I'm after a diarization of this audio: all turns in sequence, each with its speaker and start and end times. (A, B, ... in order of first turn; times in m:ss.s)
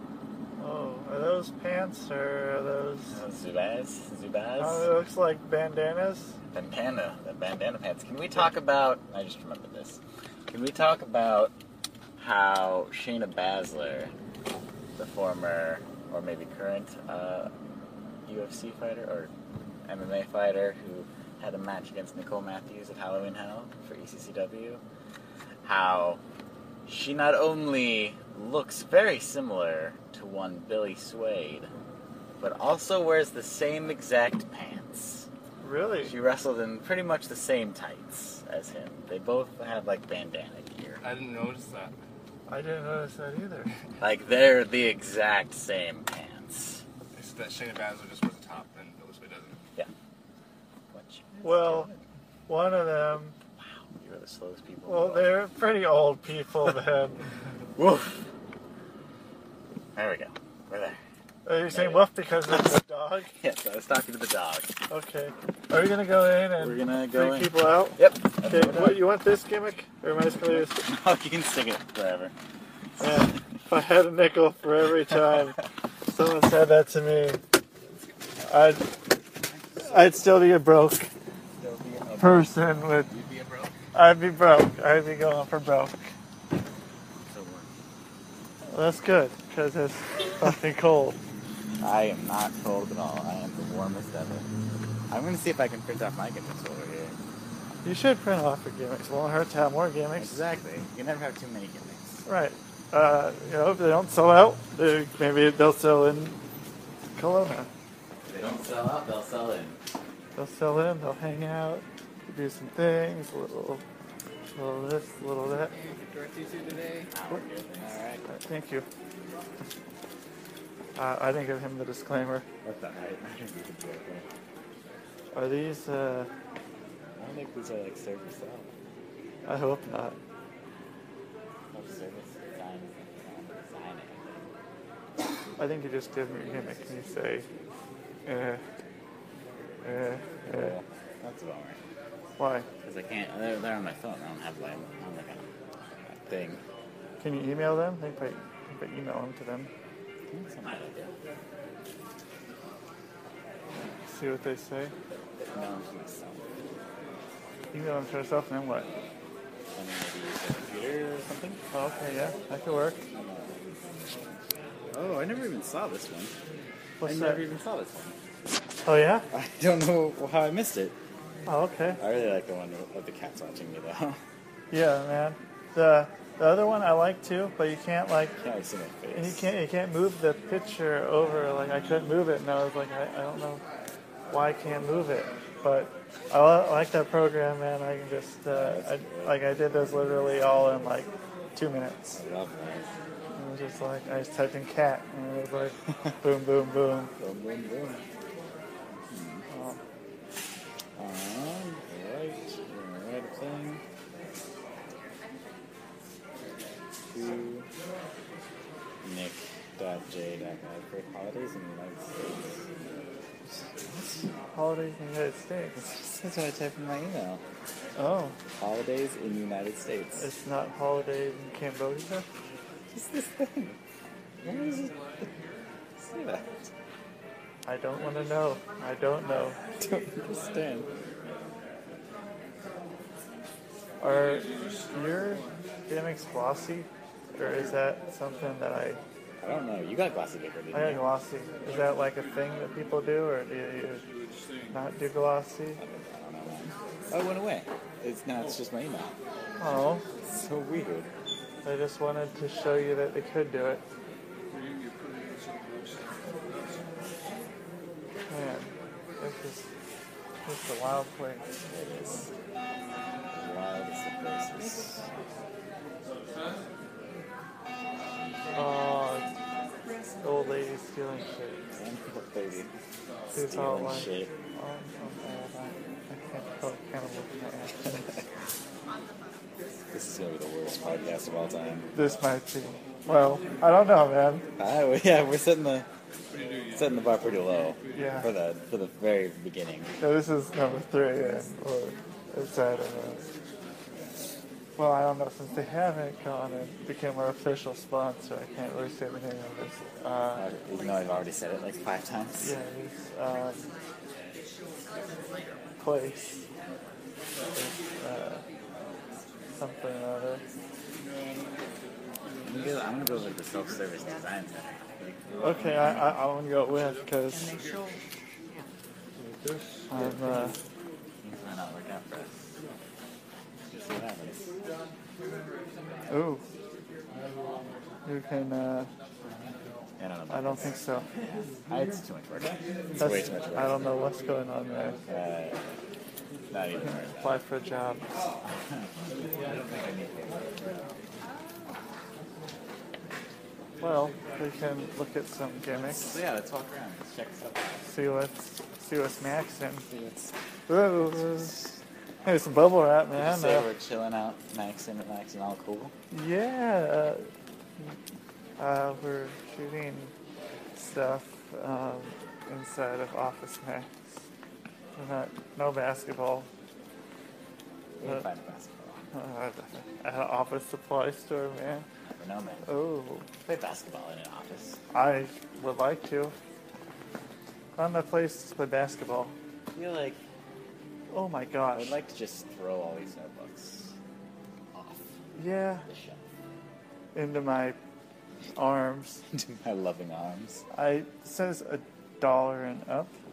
0:00.6-0:03.2 A
0:03.1-0:04.9 B
0:04.6-0:06.4 A
0:06.5-0:11.6 B
0:12.2-0:14.1 B
0:15.0-0:17.5 B
0:18.3-0:19.3 B
0:19.9-0:24.8 B
0:25.6-0:26.2 B
0:26.9-0:31.7 B
0:32.4-0:35.3 B
0:35.6-0:36.2 A
0:36.0-0:41.0 B
0:41.0-0:41.9 C
0:42.5-0:43.7 A
0:44.0-0:46.8 B
0:47.2-0:49.5 C
0:50.9-0:52.0 B
0:51.4-0:51.9 A
0:52.5-0:53.4 A
0:53.6-0:55.4 B
0:54.9-0:57.2 A
0:57.8-0:58.2 B
1:00.0-1:01.0 B
1:01.4-1:03.3 A
1:01.7-1:02.1 B
1:03.3-1:04.8 B
1:04.9-1:10.9 A
1:06.6-1:09.1 B
1:10.3-1:12.3 B
1:13.0-1:17.4 A
1:18.4-1:18.8 A
1:19.4-1:20.1 B
1:19.8-1:21.1 A
1:21.6-1:22.6 B
1:22.2-1:23.1 A
1:23.1-1:23.4 B
1:23.9-1:26.1 A
1:27.3-1:27.7 B
1:28.7-1:31.2 A
1:31.8-1:34.5 B
1:35.1-1:37.2 B
1:37.8-1:40.4 A
1:40.2-1:42.2 B
1:42.3-1:46.4 A
1:47.2-1:47.7 A
1:48.3-1:49.8 B
1:50.4-1:53.8 A
1:54.5-1:55.7 A
1:56.3-1:56.7 C
1:57.1-1:58.3 B
1:58.3-1:58.9 A
2:01.0-2:02.5 A
2:02.6-2:04.3 B
2:05.3-2:06.3 A
2:07.2-2:08.7 B
2:09.4-2:10.2 A
2:11.7-2:14.5 B
2:15.6-2:17.5 A
2:18.3-2:18.6 A
2:19.8-2:20.8 A
2:20.4-2:21.8 B
2:22.4-2:22.7 A
2:22.8-2:25.5 B
2:26.0-2:26.6 B
2:27.2-2:29.7 A
2:30.3-2:31.1 B
2:34.0-2:34.9 A
2:35.4-2:36.5 B
2:37.7-2:38.9 A
2:39.7-2:41.6 B
2:41.7-2:43.0 A
2:43.1-2:46.3 B
2:47.0-2:47.4 A
2:47.0-2:48.2 B
2:48.8-2:49.3 A
2:49.3-2:51.0 B
2:51.5-2:52.0 A
2:52.0-2:54.2 B
2:54.7-2:58.4 A
2:58.4-2:59.5 B
2:59.1-3:03.6 A
3:04.3-3:12.2 A
3:08.5-3:09.4 B
3:12.2-3:12.9 B
3:13.4-3:17.1 A
3:17.2-3:18.1 B
3:19.1-3:19.5 B
3:19.5-3:19.8 A
3:21.0-3:23.8 B
3:27.1-3:27.7 B
3:29.0-3:32.7 B
3:33.5-3:34.3 B
3:34.5-3:35.8 A
3:35.8-3:37.4 B
3:38.0-3:38.4 A
3:38.6-3:40.3 B
3:40.2-3:42.3 A
3:42.9-3:43.8 B
3:44.4-3:45.4 B
3:46.0-3:46.7 B
3:47.7-3:49.6 A
3:49.8-3:50.9 B
3:54.0-3:59.0 A
3:57.4-3:57.8 B
3:59.4-4:01.1 B
4:00.7-4:04.0 A
4:04.7-4:05.8 A
4:05.8-4:09.2 B
4:09.6-4:10.0 A
4:10.2-4:11.1 B
4:11.6-4:13.8 A
4:18.3-4:19.7 A
4:20.5-4:21.5 A
4:21.7-4:22.3 B
4:23.3-4:25.1 B
4:28.6-4:29.3 A
4:30.2-4:31.6 A
4:31.7-4:32.7 B
4:33.3-4:34.3 B
4:33.3-4:38.2 A
4:39.9-4:41.9 B
4:41.9-4:44.5 A
4:44.6-4:45.9 B
4:46.7-4:49.9 B
4:47.9-4:48.3 A
4:50.0-4:53.2 A
4:54.8-5:00.5 A
5:00.4-5:02.6 B
5:02.4-5:03.6 A
5:05.8-5:06.5 A
5:07.5-5:08.4 A
5:09.6-5:10.4 A
5:12.4-5:16.1 B
5:15.4-5:17.6 A
5:19.9-5:20.6 A
5:19.9-5:20.5 B
5:21.2-5:22.6 B
5:23.7-5:24.6 B
5:26.1-5:26.4 A
5:28.0-5:28.9 A
5:29.3-5:34.1 B
5:30.3-5:31.1 A
5:33.0-5:35.0 A
5:35.1-5:35.7 B
5:36.5-5:37.4 B
5:36.8-5:38.1 A
5:38.4-5:41.0 B
5:43.8-5:46.2 A
5:45.7-5:47.9 B
5:47.8-5:49.9 A
5:49.9-5:50.3 B
5:50.7-5:51.6 A
5:51.4-5:51.6 B
5:52.2-5:53.7 A
5:53.2-5:55.9 B
5:56.1-5:57.3 A
5:58.6-6:00.1 A
6:00.8-6:03.9 A
6:05.0-6:06.5 A
6:07.9-6:09.1 B
6:09.1-6:11.9 A
6:12.0-6:12.7 B
6:12.6-6:13.3 A
6:13.4-6:14.8 B
6:14.9-6:16.4 A
6:17.8-6:19.4 A
6:19.7-6:20.2 B
6:21.1-6:22.0 A
6:21.7-6:24.0 B
6:24.7-6:25.2 B
6:25.4-6:25.8 A
6:25.9-6:26.2 B
6:27.1-6:27.8 A
6:28.6-6:29.2 A
6:29.3-6:30.6 B
6:30.7-6:33.1 A